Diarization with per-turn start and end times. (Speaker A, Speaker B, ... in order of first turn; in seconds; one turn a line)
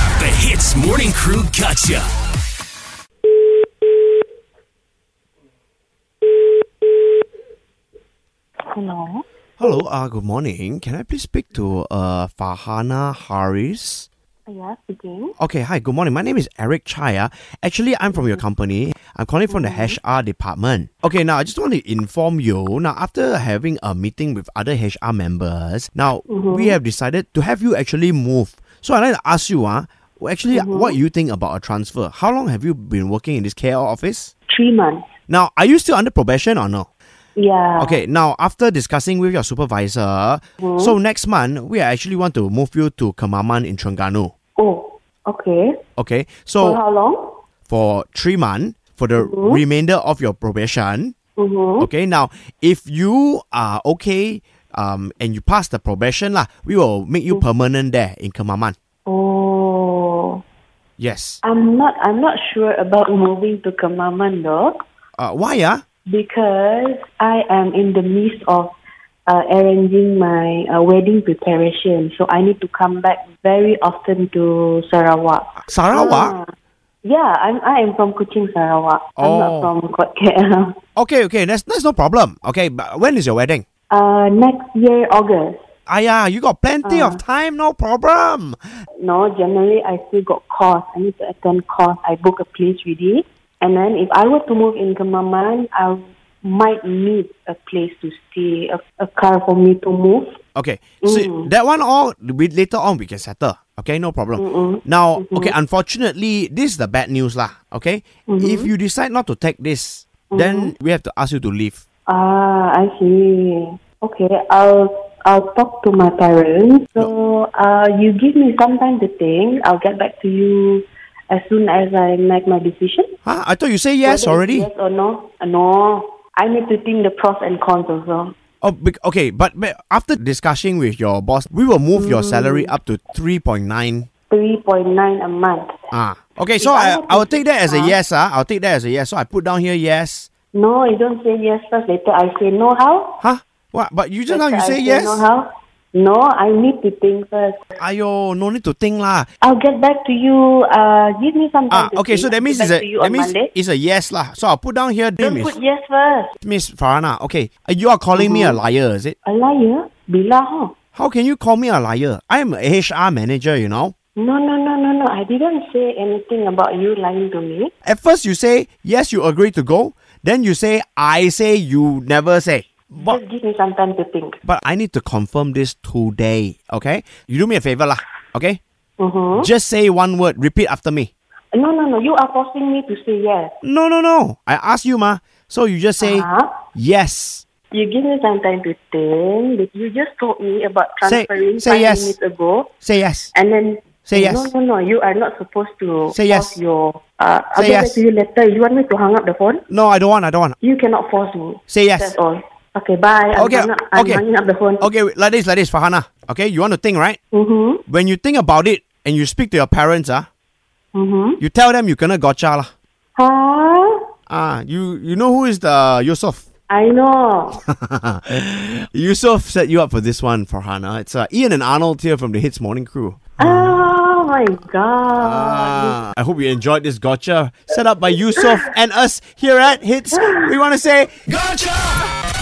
Speaker A: 0.2-2.0
Speaker B: 8.7-9.2
Speaker C: 9.6-14.1
Speaker B: 14.5-15.3
Speaker C: 15.4-34.3
Speaker B: 19.5-19.9
Speaker B: 26.3-26.8
Speaker B: 30.5-31.0
Speaker B: 34.5-35.1
Speaker C: 35.3-36.9
Speaker B: 37.4-38.0
Speaker C: 37.8-44.3
Speaker B: 40.6-41.0
Speaker B: 44.6-45.8
Speaker C: 46.0-46.8
Speaker B: 46.6-47.4
Speaker C: 47.7-51.1
Speaker B: 49.2-49.6
Speaker B: 51.4-51.9
Speaker C: 51.8-58.7
Speaker B: 59.0-60.4
Speaker C: 61.0-61.4
Speaker B: 61.4-64.8
Speaker C: 65.2-65.8
Speaker B: 66.1-68.7
Speaker B: 69.2-76.5
Speaker C: 75.6-76.4
Speaker B: 77.0-80.8
Speaker C: 79.2-79.7
Speaker C: 81.0-83.6
Speaker B: 83.9-85.6
Speaker C: 85.9-88.6
Speaker B: 86.8-87.2
Speaker B: 89.0-100.4
Speaker C: 100.5-111.8
Speaker B: 101.0-101.5
Speaker B: 104.4-105.5
Speaker B: 108.3-108.7
Speaker B: 110.3-110.7
Speaker B: 112.1-123.1
Speaker C: 123.2-124.7
Speaker B: 124.0-128.3
Speaker C: 128.6-134.1
Speaker B: 131.9-132.7
Speaker B: 134.3-135.7
Speaker C: 135.9-140.3
Speaker B: 136.6-138.0
Speaker B: 140.5-143.2
Speaker C: 143.2-145.2
Speaker B: 144.3-147.6
Speaker C: 147.8-149.3
Speaker B: 149.4-153.5
Speaker C: 151.7-155.5
Speaker B: 155.2-156.3
Speaker C: 156.4-159.2
Speaker B: 158.1-158.6
Speaker B: 159.2-160.7
Speaker C: 160.9-163.9
Speaker B: 164.2-167.7
Speaker C: 167.8-173.2
Speaker B: 173.0-174.4
Speaker C: 174.4-178.6
Speaker B: 179.0-179.5
Speaker C: 179.3-181.1
Speaker B: 181.5-183.5
Speaker C: 183.6-187.4
Speaker B: 186.0-186.5
Speaker B: 187.7-192.7
Speaker C: 191.0-192.2
Speaker C: 192.8-193.3
Speaker B: 193.3-199.6
Speaker C: 194.1-194.5
Speaker C: 196.1-196.6
Speaker C: 197.5-198.0
Speaker C: 199.7-200.6
Speaker B: 200.6-204.9
Speaker C: 201.7-202.2
Speaker C: 203.3-204.2
Speaker C: 204.8-207.2
Speaker B: 207.3-207.8
Speaker C: 207.9-210.3
Speaker B: 210.9-211.4
Speaker C: 211.4-212.7
Speaker B: 213.2-213.9
Speaker C: 214.3-216.4
Speaker B: 216.7-217.6
Speaker C: 217.6-223.8
Speaker B: 223.4-226.0
Speaker C: 225.2-231.1
Speaker B: 228.4-228.7
Speaker B: 230.1-230.5
Speaker A: 231.3-232.0